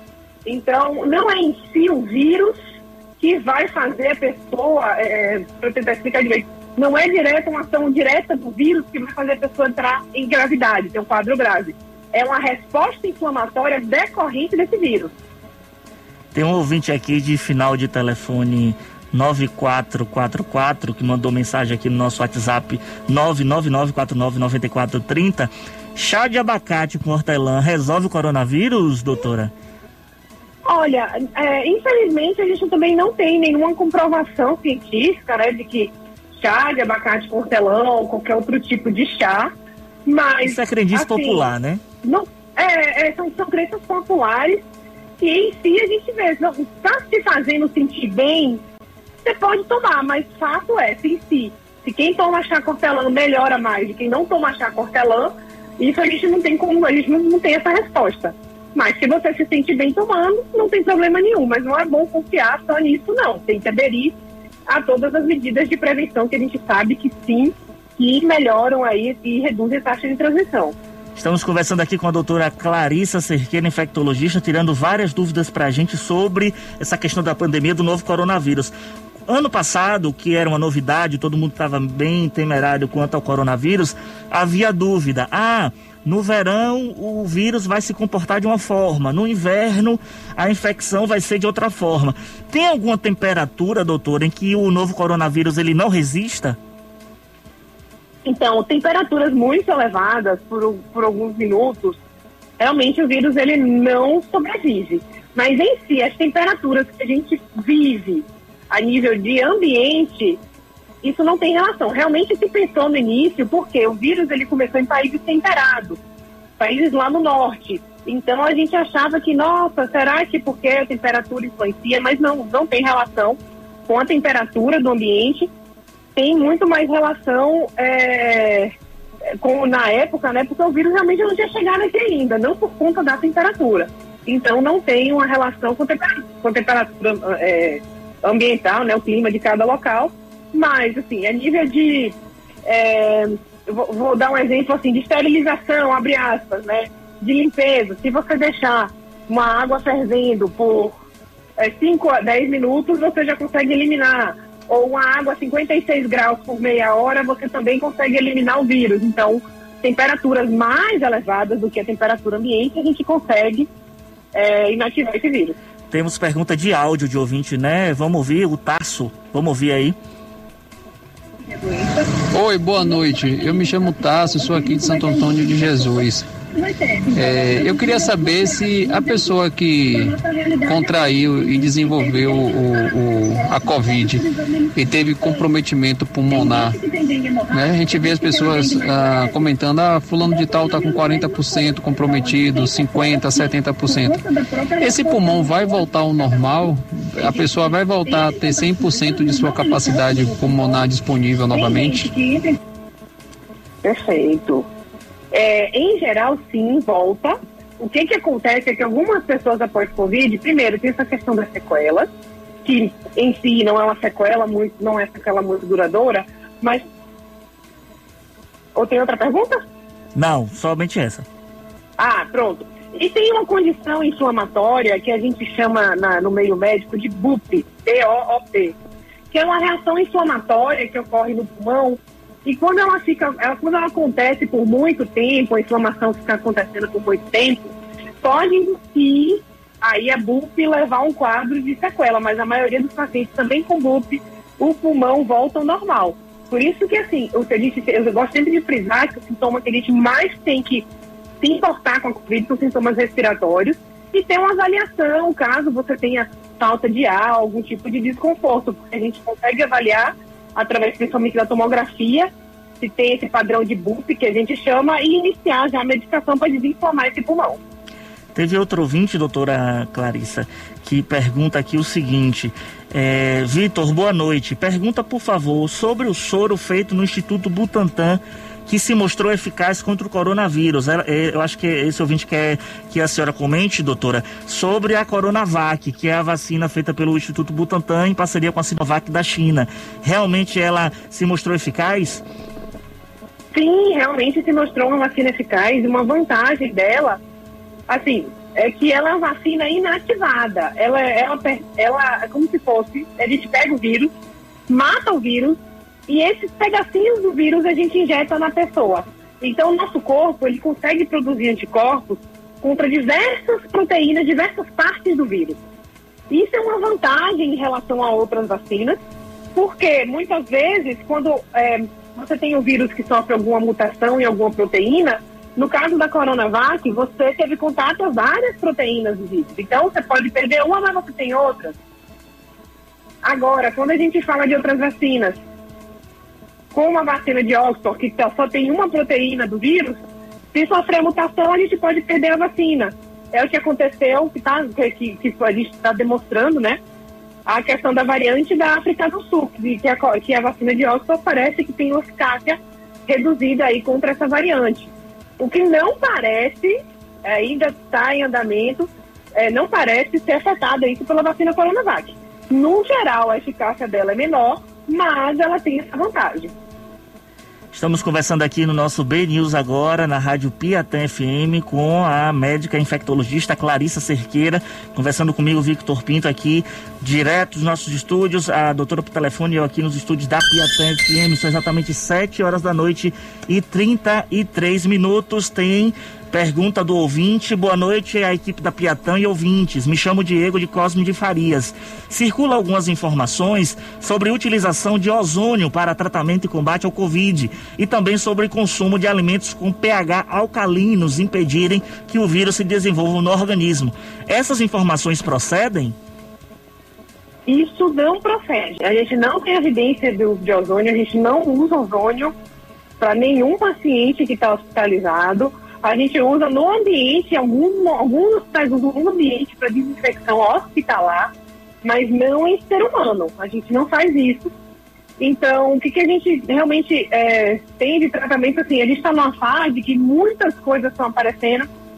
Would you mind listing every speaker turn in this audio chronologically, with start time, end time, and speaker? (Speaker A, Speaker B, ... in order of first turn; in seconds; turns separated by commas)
Speaker A: 0.5-2.6, Speaker A: 3.2-15.2, Speaker B: 16.3-29.5, Speaker A: 30.6-39.5, Speaker A: 40.0-41.5, Speaker B: 40.4-41.8, Speaker A: 42.0-44.6, Speaker A: 45.2-48.6, Speaker A: 49.2-64.1, Speaker A: 64.7-70.7, Speaker B: 71.2-78.7, Speaker B: 79.3-96.6, Speaker A: 98.2-102.0, Speaker A: 102.6-110.4, Speaker A: 111.0-116.0, Speaker A: 116.6-125.5, Speaker A: 126.1-128.7, Speaker A: 129.4-150.9, Speaker A: 151.6-163.7, Speaker A: 164.3-165.6, Speaker B: 165.9-170.0, Speaker A: 171.4-185.5, Speaker C: 172.3-176.2, Speaker C: 177.1-184.2, Speaker C: 184.8-186.8, Speaker A: 186.3-189.5, Speaker C: 187.5-194.2, Speaker A: 190.2-200.9, Speaker C: 194.8-202.1, Speaker A: 201.4-202.6, Speaker A: 203.8-204.7, Speaker A: 205.3-212.1, Speaker A: 212.6-216.8, Speaker A: 218.7-219.6, Speaker B: 220.1-221.2, Speaker A: 222.0-228.8, Speaker A: 229.3-250.8, Speaker A: 251.4-267.6, Speaker B: 268.3-292.2, Speaker A: 293.5-297.2, Speaker A: 297.9-304.1, Speaker A: 304.7-315.6, Speaker A: 316.3-319.0, Speaker A: 319.5-331.7, Speaker A: 333.2-335.4, Speaker A: 336.7-340.0, Speaker A: 340.5-346.8, Speaker A: 347.4-366.5, Speaker B: 367.7-405.9, Speaker A: 407.5-412.3, Speaker A: 413.0-421.3, Speaker A: 421.8-424.5, Speaker A: 425.2-431.7